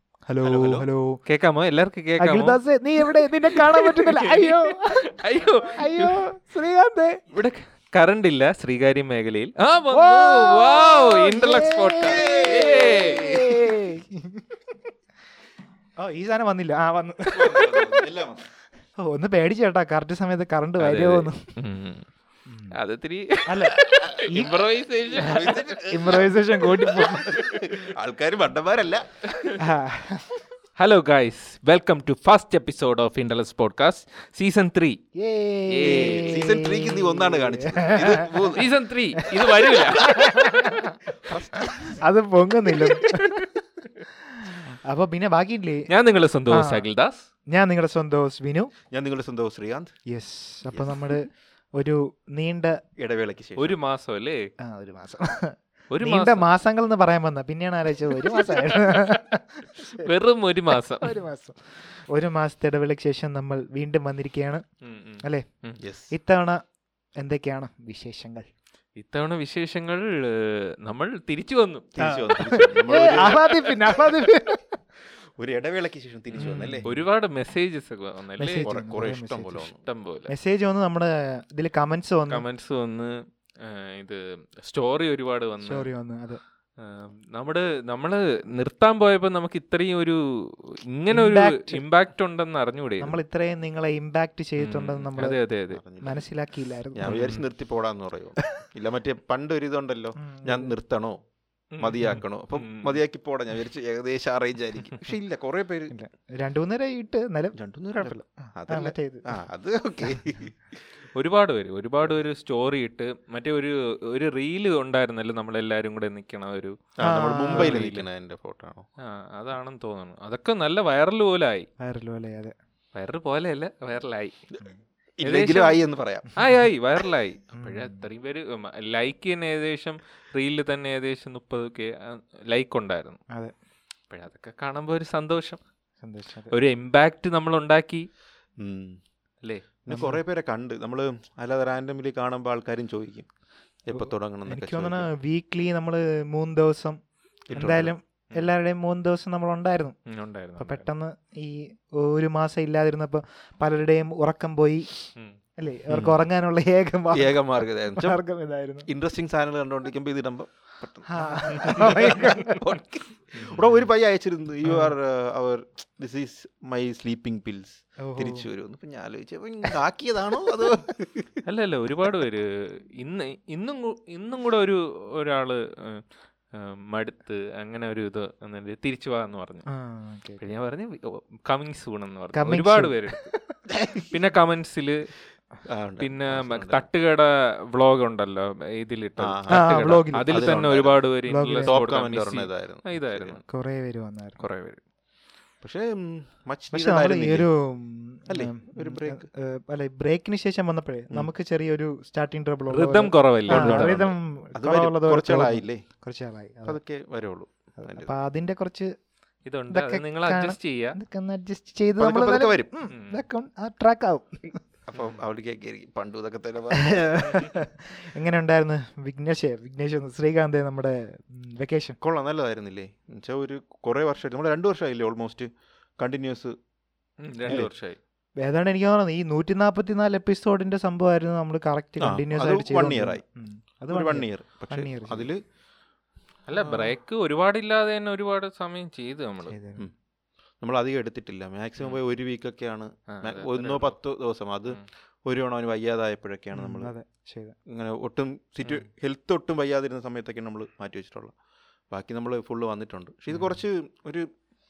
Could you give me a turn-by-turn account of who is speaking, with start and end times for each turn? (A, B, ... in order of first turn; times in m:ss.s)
0:00.3-0:01.2 A
0:00.4-0:00.9 B
0:01.2-0:06.2 C
0:02.2-0:05.1 A
0:05.7-0:07.2 A
0:07.3-0:13.5 C
0:09.9-0:14.4 A
0:12.0-0:13.5 B
0:16.0-0:18.0 A
0:17.3-0:18.4 B
0:19.0-0:21.5 A
0:20.8-0:22.1 C
0:22.5-0:22.8 A
0:22.7-0:25.7 C
0:23.4-0:24.6 A
0:25.1-0:29.0 B
0:25.2-0:27.3 A
0:29.3-0:29.6 C
0:29.6-0:30.3 A
0:30.8-0:35.0 C
0:35.2-0:38.3 A
0:35.7-0:36.3 C
0:35.8-0:38.7 B
0:38.3-0:40.5 C
0:39.2-0:41.0 A
0:41.2-0:41.9 B
0:41.9-0:43.5 A
0:42.8-0:43.5 C
0:44.2-0:45.9 A
0:45.9-0:47.3 C
0:46.5-0:46.8 A
0:47.5-0:48.7 A
0:48.9-0:49.9 B
0:50.1-0:52.8 A
0:50.7-0:51.1 B
0:53.0-0:53.8 B
0:53.6-0:54.4 C
0:54.6-1:00.1 A
0:55.9-0:56.5 C
0:58.1-0:59.2 C
0:59.9-1:01.2 C
1:00.7-1:01.6 A
1:02.1-1:04.6 A
1:04.8-1:05.8 C
1:05.8-1:06.1 B
1:06.1-1:06.6 A
1:07.2-1:08.5 A
1:09.0-1:11.9 C
1:11.9-1:14.0 B
1:12.0-1:14.7 A
1:15.4-1:16.9 B
1:16.3-1:18.6 C
1:16.4-1:16.9 A
1:18.4-1:19.7 A
1:18.6-1:19.8 B
1:19.8-1:20.3 C
1:20.3-1:22.4 A
1:22.3-1:25.9 C
1:25.6-1:26.4 A
1:26.8-1:33.2 C
1:31.1-1:31.8 A
1:33.0-1:35.4 A
1:34.6-1:35.8 C
1:35.7-1:36.2 B
1:36.0-1:37.1 A
1:36.9-1:41.2 B
1:37.0-1:37.4 C
1:40.2-1:40.7 A
1:41.7-1:43.0 C
1:41.8-1:45.9 B
1:45.9-1:49.4 A
1:47.5-1:50.5 B
1:51.1-1:56.8 C
1:57.0-1:58.9 B
1:57.0-1:57.8 A
1:57.5-1:58.0 C
1:59.0-2:01.7 C
2:01.8-2:02.5 A
2:02.9-2:04.4 C
2:05.2-2:06.3 B
2:05.2-2:05.8 C
2:06.3-2:13.2 C
2:07.6-2:08.0 A
2:14.1-2:15.6 C
2:16.0-2:16.5 A
2:16.5-2:18.1 C
2:18.6-2:19.0 B
2:19.8-2:23.3 B
2:19.9-2:20.2 A
2:23.8-2:25.1 B
2:23.9-2:27.0 A
2:27.5-2:27.9 B
2:27.5-2:30.0 A
2:30.1-2:30.8 C
2:30.6-2:34.9 A
2:35.6-2:38.9 A
2:35.9-2:36.2 B
2:37.1-2:38.2 B
2:38.8-2:51.4 B
2:41.1-2:42.6 A
2:44.6-2:44.9 A
2:48.0-2:48.4 A
2:51.4-2:59.6 C
2:59.7-3:00.4 A
3:00.4-3:03.2 C
3:02.3-3:03.4 A
3:04.0-3:05.0 C
3:05.7-3:06.8 B
3:06.0-3:13.4 C
3:09.2-3:11.1 B
3:09.5-3:10.3 A
3:11.3-3:11.8 A
3:11.6-3:13.4 B
3:13.5-3:14.4 A
3:14.4-3:14.8 C
3:15.6-3:17.5 B
3:16.7-3:26.8 A
3:18.3-3:19.3 B
3:22.7-3:24.0 C
3:23.5-3:25.8 B
3:26.6-3:28.1 B
3:27.8-3:28.9 A
3:29.4-3:31.0 C
3:29.7-3:34.6 A
3:32.0-3:32.7 B
3:32.9-3:33.2 C
3:34.9-3:37.3 B
3:36.7-3:42.0 A
3:42.0-3:46.5 B
3:47.2-3:48.0 C
3:47.4-3:47.7 B
3:48.4-3:55.3 A
3:52.0-3:53.2 B
3:53.9-3:55.4 B
3:56.5-3:59.6 C
3:56.6-3:56.9 A
3:59.5-3:59.8 A
4:00.6-4:06.9 B
4:03.1-4:03.9 C
4:06.5-4:07.5 A
4:07.7-4:11.3 B
4:11.9-4:14.3 B
4:13.3-4:13.6 A